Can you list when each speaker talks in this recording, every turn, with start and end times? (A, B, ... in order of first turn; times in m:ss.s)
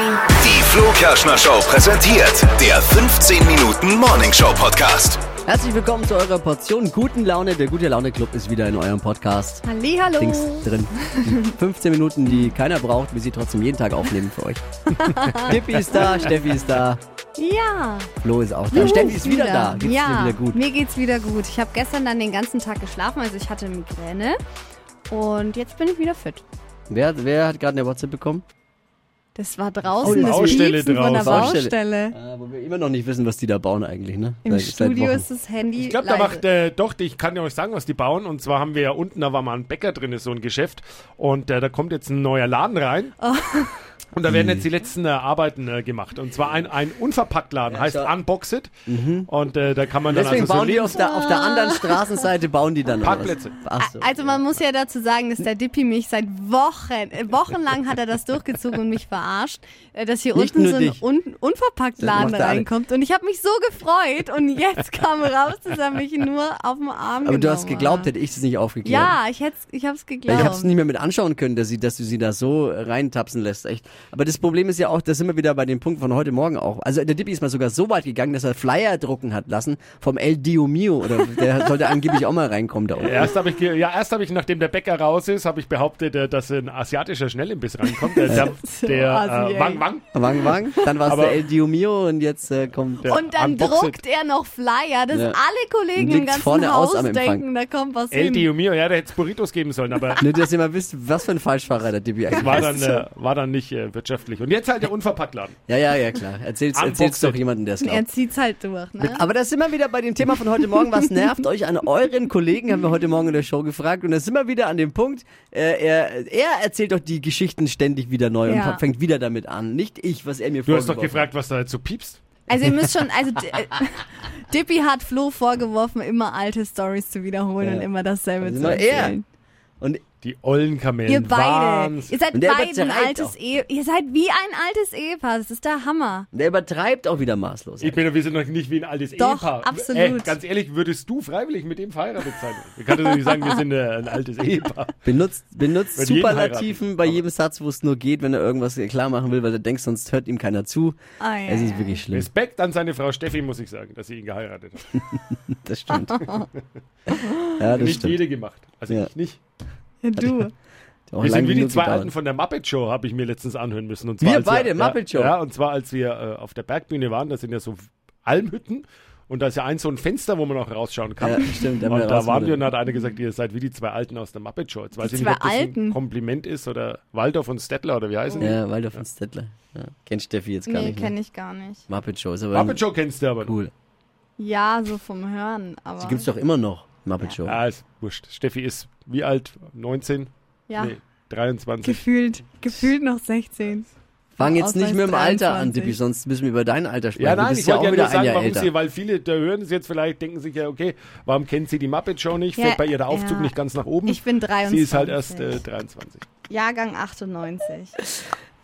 0:00.2-0:05.2 A
0:05.4-0:14.6 B
0:09.6-0:11.6 C
0:14.9-0:16.3 C
0:15.3-0:17.0 B
0:15.9-0:16.3 D
0:17.4-0:18.1 C
0:18.2-0:20.6 B
0:18.7-0:19.1 D
0:18.7-0:24.4 C
0:25.1-0:26.4 C
0:26.9-0:28.4 B
0:29.3-0:32.2 C
0:30.0-0:30.7 B
0:30.0-0:31.6 D
0:31.2-0:35.3 B
0:34.4-0:36.4 C
0:35.8-0:43.2 D
0:43.2-0:43.9 C
0:44.1-0:48.7 D
0:44.3-0:44.6 B
0:47.7-0:48.1 B
0:48.8-0:49.3 B
0:49.3-0:51.1 D
0:50.1-0:54.5 B
0:51.0-0:52.2 C
0:53.0-0:53.6 D
0:53.8-1:08.1 C
1:00.3-1:01.0 B
1:02.0-1:02.7 B
1:07.2-1:09.2 B
1:08.8-1:10.7 C
1:10.3-1:23.3 B
1:21.3-1:22.0 C
1:23.0-1:30.0 D
1:27.9-1:29.8 C
1:28.3-1:28.5 B
1:30.1-1:34.0 B
1:30.4-1:30.9 C
1:31.0-1:31.4 D
1:33.0-1:33.6 D
1:33.0-1:38.5 C
1:35.1-1:35.4 B
1:35.9-1:37.4 B
1:38.1-1:40.2 D
1:40.2-1:42.8 B
1:42.3-1:45.6 D
1:42.4-1:43.0 C
1:45.7-1:48.0 B
1:46.7-1:47.4 D
1:47.8-1:49.2 C
1:49.0-2:01.3 B
1:58.4-1:58.8 C
2:00.6-2:02.2 D
2:02.5-2:09.2 C
2:07.6-2:07.9 B
2:08.4-2:09.2 B
2:10.2-2:12.2 D
2:11.1-2:16.3 C
2:12.3-2:13.4 B
2:16.3-2:18.0 B
2:17.8-2:25.0 D
2:19.2-2:20.4 C
2:23.1-2:23.5 C
2:25.0-2:32.3 B
2:25.9-2:27.2 D
2:31.2-2:32.0 C
2:32.1-2:35.2 D
2:35.5-2:36.2 B
2:36.0-2:36.4 C
2:36.1-2:36.6 D
2:37.1-2:37.6 C
2:37.6-2:38.2 B
2:37.7-2:39.4 D
2:40.0-2:40.5 C
2:40.2-2:40.4 B
2:41.1-2:42.1 B
2:41.2-2:59.0 D
2:44.2-2:45.3 B
2:51.2-2:52.7 B
2:55.0-2:56.0 C
2:58.4-3:01.1 B
3:00.7-3:01.8 C
3:01.9-3:02.8 B
3:02.5-3:03.6 D
3:03.4-3:03.7 B
3:04.4-3:06.3 C
3:06.0-3:07.6 B
3:07.4-3:12.0 D
3:10.7-3:10.9 C
3:11.8-3:16.0 C
3:14.4-3:18.7 B
3:17.2-3:26.2 D
3:22.6-3:23.5 C
3:24.0-3:25.6 C
3:26.5-3:28.0 C